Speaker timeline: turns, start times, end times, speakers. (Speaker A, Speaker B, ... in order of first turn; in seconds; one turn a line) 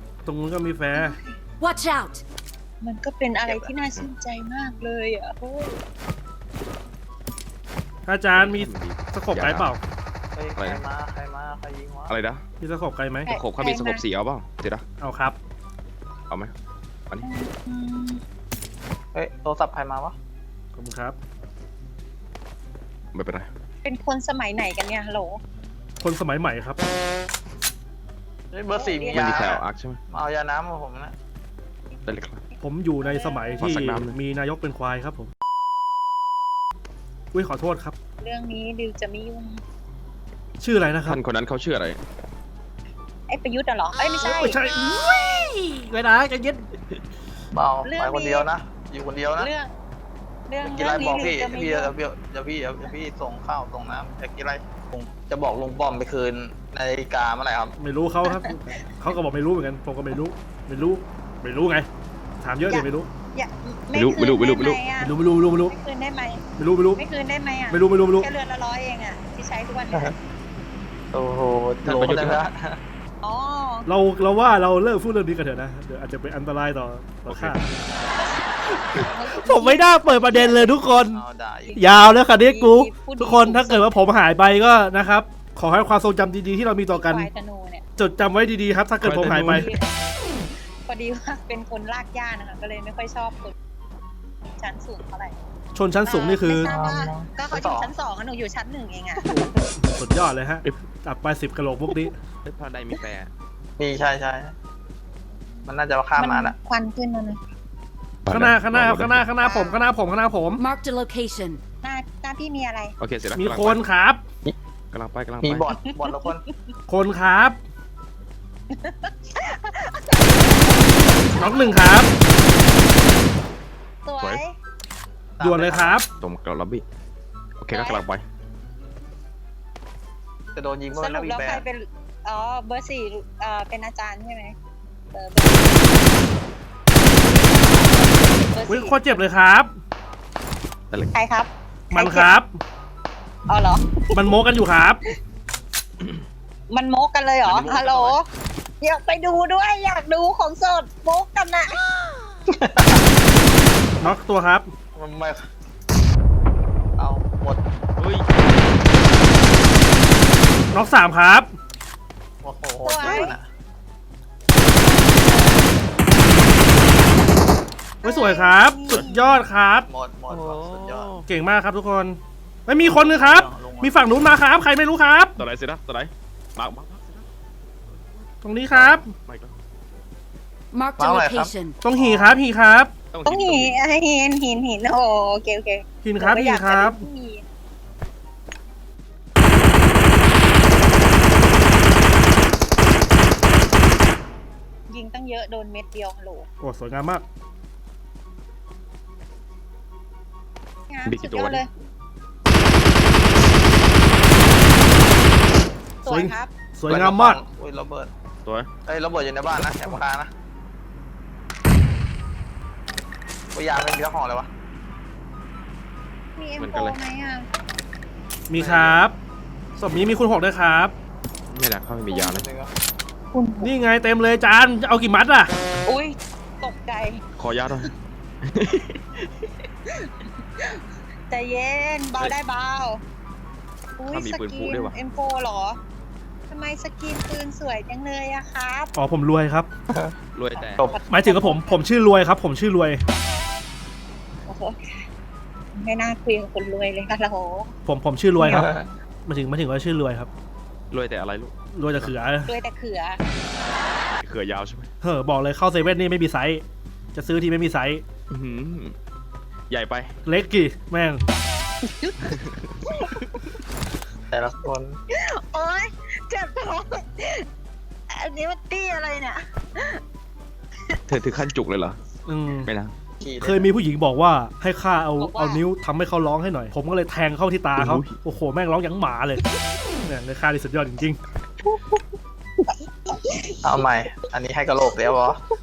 Speaker A: 0.2-1.2
Speaker B: 0.9-1.4
Speaker C: 1.6-2.2
Speaker B: 2.8-5.8
Speaker D: 3.4-3.7
Speaker A: 8.1-9.8
Speaker E: 8.3-9.7
Speaker D: 10.3-12.1
Speaker E: 12.1-12.4
Speaker A: 12.6-13.3
Speaker B: 13.2-14.0
Speaker E: 13.3-14.8
Speaker A: 15.0-15.4
Speaker B: 17.2-18.2
Speaker D: 19.1-20.1
Speaker A: 20.7-21.2
Speaker E: 23.1-23.5
Speaker B: 23.8-25.4
Speaker A: 26.0-26.8
Speaker D: 28.5-31.1
Speaker B: 28.7-29.6
Speaker E: 29.1-30.0
Speaker E: 32.0-32.4
Speaker A: 32.6-35.3
Speaker B: 33.0-33.7
Speaker E: 33.6-34.1
Speaker A: 37.3-38.0
Speaker B: 38.2-39.6
Speaker A: 40.6-41.2
Speaker E: 41.0-42.0
Speaker B: 43.3-44.6
Speaker A: 44.2-46.7
Speaker D: 47.5-49.5
Speaker B: 47.8-48.5
Speaker B: 49.3-49.7
Speaker B: 50.5-51.9
Speaker D: 50.6-57.7
Speaker A: 57.8-61.9
Speaker B: 58.2-58.5
Speaker A: 62.4-63.1
Speaker B: 62.7-66.4
Speaker E: 63.9-64.8
Speaker A: 65.0-65.7
Speaker A: 66.6-67.0
Speaker B: 67.0-70.2
Speaker A: 67.7-68.3
Speaker D: 71.1-72.8
Speaker E: 71.8-72.4
Speaker B: 73.2-73.9
Speaker A: 73.9-77.6
Speaker E: 77.3-77.6
Speaker B: 78.2-80.7
Speaker A: 78.8-81.2
Speaker D: 81.1-81.7
Speaker B: 81.6-84.0
Speaker A: 81.7-87.3
Speaker B: 86.9-87.8
Speaker A: 88.0-89.7
Speaker E: 89.0-89.7
Speaker B: 89.4-89.8
Speaker B: 90.8-93.5
Speaker B: 94.5-95.4
Speaker A: 95.7-96.7
Speaker B: 96.0-99.4
Speaker D: 96.6-97.9
Speaker A: 99.2-102.1
Speaker E: 102.4-103.3
Speaker D: 103.8-104.5
Speaker D: 105.7-106.5
Speaker B: 106.2-107.4
Speaker E: 108.2-109.2
Speaker A: 108.3-110.6
Speaker B: 109.4-109.9
Speaker C: 110.6-111.6
Speaker B: 111.8-112.9
Speaker E: 113.0-113.8
Speaker A: 113.3-114.2
Speaker E: 114.9-115.7
Speaker D: 115.4-116.4
Speaker B: 115.7-116.7
Speaker A: 116.9-117.6
Speaker B: 118.7-121.9
Speaker A: 121.4-122.1
Speaker B: 124.0-124.6
Speaker D: 125.4-126.0
Speaker A: 125.4-126.1
Speaker E: 126.2-126.8
Speaker E: 127.6-128.2
Speaker B: 127.7-128.0
Speaker D: 130.5-131.7
Speaker B: 130.9-134.6
Speaker B: 135.1-136.1
Speaker B: 137.2-139.0
Speaker A: 138.7-139.8
Speaker B: 141.1-142.3
Speaker A: 141.9-142.6
Speaker B: 143.5-144.2
Speaker A: 144.1-145.0
Speaker B: 146.7-148.2
Speaker E: 147.4-148.2
Speaker B: 148.8-151.8
Speaker D: 152.5-153.1
Speaker A: 154.0-154.7
Speaker D: 154.9-155.4
Speaker D: 157.0-157.6
Speaker E: 158.0-158.3
Speaker A: 160.7-161.5
Speaker D: 162.4-163.4
Speaker B: 162.8-163.4
Speaker B: 164.9-165.9
Speaker B: 168.0-169.3
Speaker A: 168.0-169.9
Speaker D: 169.9-171.1
Speaker E: 170.3-171.3
Speaker A: 171.3-175.3
Speaker D: 172.8-173.9
Speaker E: 175.4-177.2
Speaker A: 178.4-179.1
Speaker E: 178.7-179.5
Speaker C: 180.7-181.7
Speaker D: 181.0-182.3
Speaker A: 181.8-182.9
Speaker E: 183.1-183.8
Speaker B: 183.2-187.4
Speaker A: 186.0-187.0
Speaker B: 194.9-196.5
Speaker A: 196.6-197.2
Speaker B: 200.9-201.7
Speaker E: 201.1-201.6
Speaker B: 206.0-206.6
Speaker A: 206.1-207.4
Speaker D: 206.9-208.1
Speaker E: 208.4-208.7
Speaker D: 208.8-210.3
Speaker D: 213.5-214.5
Speaker B: 216.3-217.4
Speaker E: 216.6-217.0
Speaker A: 218.5-219.2
Speaker D: 218.6-219.0
Speaker A: 219.8-220.9
Speaker E: 221.5-222.4
Speaker D: 222.1-222.7
Speaker B: 223.3-223.7
Speaker A: 223.6-225.5
Speaker B: 225.8-227.2
Speaker E: 227.4-227.9
Speaker E: 228.4-229.0
Speaker B: 229.8-233.0
Speaker B: 234.0-235.8
Speaker E: 234.1-234.9
Speaker B: 236.5-238.9
Speaker A: 238.9-239.7
Speaker D: 239.9-241.1
Speaker E: 240.3-240.8
Speaker B: 240.6-241.9
Speaker A: 241.1-243.0
Speaker B: 244.5-245.1
Speaker B: 245.7-247.7
Speaker A: 247.8-248.7
Speaker D: 248.4-248.9
Speaker A: 249.2-250.3
Speaker E: 250.9-252.2
Speaker A: 251.7-252.5
Speaker B: 252.5-253.2
Speaker E: 254.2-254.9
Speaker A: 255.0-256.6
Speaker A: 257.1-258.0
Speaker E: 258.3-258.9
Speaker E: 259.7-260.1
Speaker A: 260.2-261.3
Speaker B: 261.8-263.4
Speaker D: 264.3-265.0
Speaker B: 265.1-267.5
Speaker B: 268.1-270.0
Speaker E: 271.1-272.0
Speaker A: 272.2-272.7
Speaker E: 272.6-272.9
Speaker D: 273.2-273.7
Speaker A: 273.4-279.4
Speaker B: 275.2-275.6
Speaker E: 277.8-278.1
Speaker A: 280.0-281.2
Speaker B: 281.6-282.0
Speaker B: 282.6-283.8
Speaker D: 283.6-285.4